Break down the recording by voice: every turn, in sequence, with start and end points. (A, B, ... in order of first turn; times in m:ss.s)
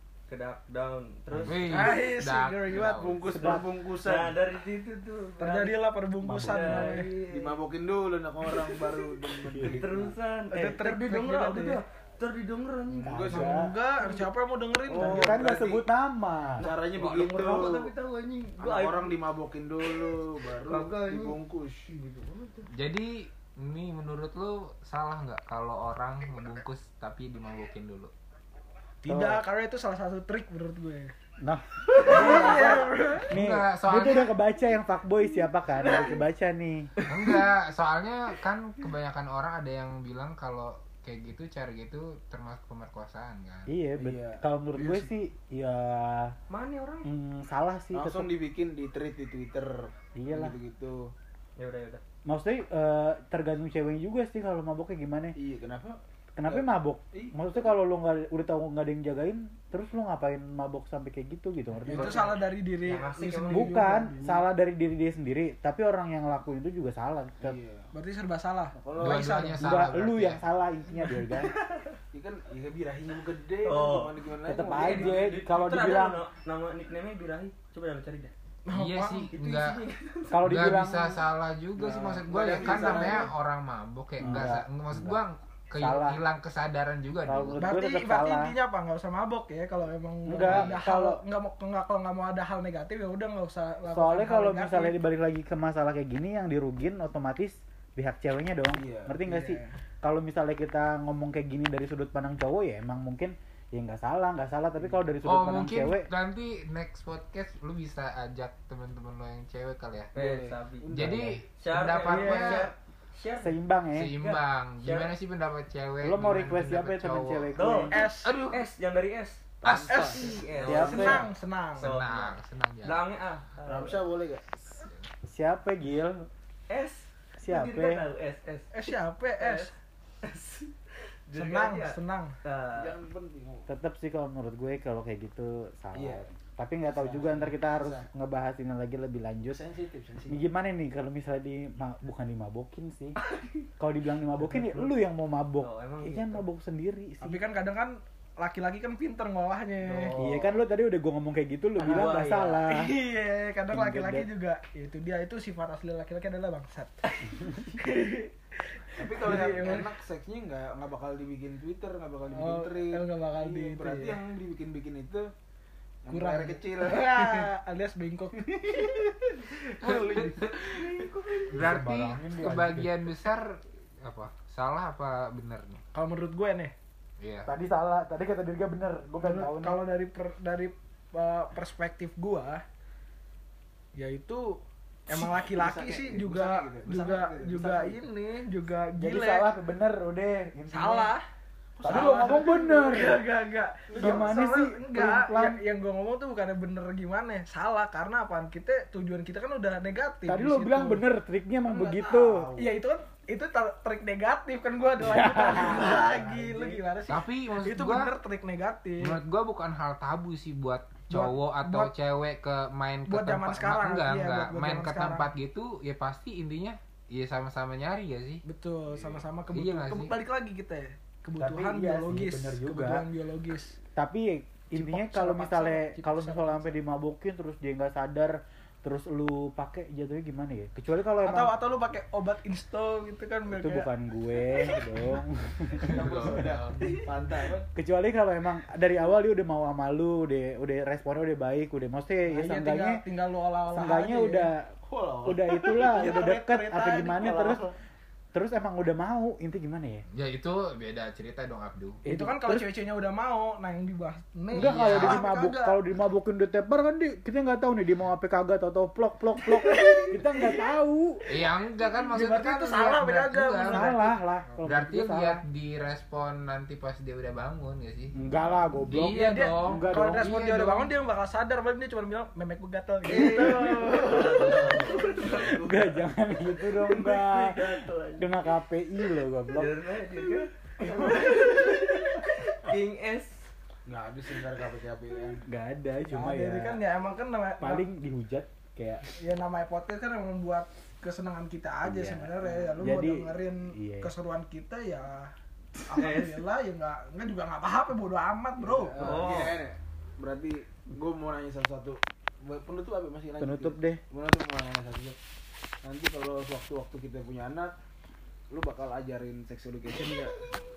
0:00.3-0:01.8 A
0:01.4-0:03.5 B
0:01.7-0:02.9 C
0:02.6-0:04.4 D
0:03.2-0:03.7 E
0:03.9-0:05.8 A
0:05.4-0:07.1 C
0:06.2-0:07.0 E
0:06.3-0:07.6 A
0:07.3-0:10.2 D
0:08.6-0:08.9 A
0:09.5-0:09.8 E
0:09.6-0:13.4 A
0:10.5-0:11.8 C
0:13.0-0:13.5 D
0:13.0-0:13.7 E
0:13.3-0:15.4 C
0:14.0-0:14.2 A
0:14.9-0:15.9 D
0:15.0-0:15.3 A
0:15.0-0:16.7 E
0:16.6-0:19.2 A
0:16.6-0:17.9 D
0:18.6-0:21.9 D
0:19.8-0:22.7 A
0:22.7-0:28.1 B
0:29.0-0:31.1 C
0:29.0-0:29.4 E
0:31.4-0:36.9 E
0:31.9-0:33.3 C
0:33.3-0:34.3 B
0:35.8-0:36.2 D
0:37.1-0:43.8 B
0:43.7-0:46.4 E
0:44.0-0:45.1 D
0:46.5-0:47.1 A
0:47.0-0:48.3 E
0:47.9-0:51.1 D
0:50.1-0:50.5 E
0:51.6-0:52.0 A
0:52.2-0:55.4 E
0:55.3-0:57.7 D
0:56.3-1:02.3 E
1:01.9-1:04.4 C
1:01.9-1:02.3 D
1:02.8-1:03.8 A
1:03.4-1:07.6 E
1:07.4-1:07.9 D
1:07.9-1:10.0 C
1:08.8-1:09.4 D
1:09.0-1:10.4 B
1:09.6-1:11.5 E
1:12.1-1:15.4 D
1:13.6-1:18.3 A
1:14.4-1:16.2 E
1:18.6-1:19.3 C
1:18.7-1:19.8 B
1:19.3-1:20.4 A
1:20.3-1:21.2 E
1:20.4-1:27.6 B
1:21.8-1:23.3 D
1:22.5-1:22.9 A
1:24.2-1:25.2 E
1:25.8-1:26.2 E
1:27.2-1:28.5 E
1:27.6-1:35.0 C
1:30.2-1:31.2 E
1:30.5-1:30.8 B
1:33.9-1:46.1 E
1:38.7-1:39.2 D
1:39.2-1:39.7 C
1:44.8-1:45.1 D
1:45.2-1:50.1 B
1:50.1-1:50.9 A
1:50.1-1:51.4 D
1:50.9-1:52.7 B
1:51.6-1:53.5 A
1:52.1-1:52.7 C
1:53.4-1:54.2 E
1:53.9-1:58.6 B
1:54.8-1:55.1 A
1:56.0-1:58.0 E
1:57.5-1:57.9 A
1:57.9-1:58.3 C
1:58.5-2:04.0 A
1:59.6-2:00.3 D
1:59.6-2:00.9 B
1:59.9-2:01.9 C
2:00.6-2:01.3 E
2:01.8-2:03.0 B
2:03.6-2:04.4 D
2:04.6-2:06.3 E
2:06.7-2:08.7 A
2:07.4-2:08.0 E
2:08.7-2:09.7 C
2:09.4-2:10.7 A
2:11.3-2:13.0 A
2:11.3-2:12.3 C
2:12.7-2:13.7 D
2:13.7-2:19.6 E
2:15.9-2:16.3 D
2:16.8-2:18.1 D
2:19.5-2:20.4 D
2:20.3-2:23.2 E
2:23.8-2:27.4 E
2:24.4-2:24.9 D
2:25.6-2:26.4 A
2:27.2-2:30.1 C
2:29.8-2:30.6 A
2:30.1-2:32.9 E
2:31.8-2:32.6 A
2:32.6-2:39.9 C
2:33.7-2:34.3 E
2:39.0-2:45.3 D
2:42.3-2:44.2 C
2:46.0-2:47.2 D
2:46.1-2:48.9 C
2:48.4-2:51.0 D
2:49.8-2:50.6 B
2:50.7-2:51.7 A
2:51.5-2:55.8 B
2:51.5-2:52.9 E
2:55.9-2:56.7 C
2:57.2-2:57.5 B
2:57.4-2:59.8 E
2:59.2-3:02.6 C
3:03.9-3:09.5 C
3:05.4-3:08.0 D
3:09.0-3:11.1 E
3:10.7-3:11.2 C
3:11.8-3:12.6 D
3:11.8-3:13.2 E
3:11.8-3:21.0 C
3:13.9-3:14.3 D
3:14.0-3:15.6 E
3:20.3-3:22.5 E
3:21.6-3:22.7 D
3:22.6-3:29.2 C
3:25.0-3:26.0 E
3:25.4-3:26.8 D
3:27.1-3:28.1 B
3:29.0-3:38.4 B
3:31.1-3:31.9 C
3:33.1-3:35.3 C
3:38.4-3:43.8 C
3:39.5-3:40.1 B
3:41.4-3:43.0 E
3:44.0-3:51.6 E
3:44.7-3:46.8 C
3:51.2-3:53.9 C
3:53.5-3:56.3 E
3:55.8-3:57.0 B
3:55.8-3:57.7 D
3:57.7-4:03.0 E
4:02.3-4:04.5 C
4:03.7-4:04.7 E
4:04.8-4:07.7 D
4:05.2-4:07.6 E
4:08.3-4:10.0 E
4:10.1-4:12.0 B
4:12.0-4:15.8 C
4:12.0-4:12.7 E
4:14.5-4:15.2 B
4:14.5-4:21.4 E
4:19.5-4:20.6 C
4:21.3-4:23.8 B
4:22.0-4:24.2 C
4:23.7-4:25.4 E
4:24.6-4:28.1 B
4:28.1-4:30.3 E
4:28.9-4:30.9 B
4:29.0-4:34.2 C
4:33.1-4:35.7 A
4:33.1-4:36.1 D
4:35.2-4:39.8 E
4:36.3-4:38.5 A
4:39.5-4:43.5 A
4:40.8-4:42.0 D
4:43.8-4:45.4 D
4:45.4-4:46.8 E
4:46.1-4:47.8 C
4:47.6-4:49.0 E
4:49.1-4:55.3 C
4:51.8-4:54.1 E
4:55.9-4:59.2 C
4:56.0-4:56.3 A
4:58.6-5:05.2 D
4:59.0-4:59.6 A
5:03.4-5:04.0 E
5:05.8-5:07.7 D
5:08.5-5:10.4 D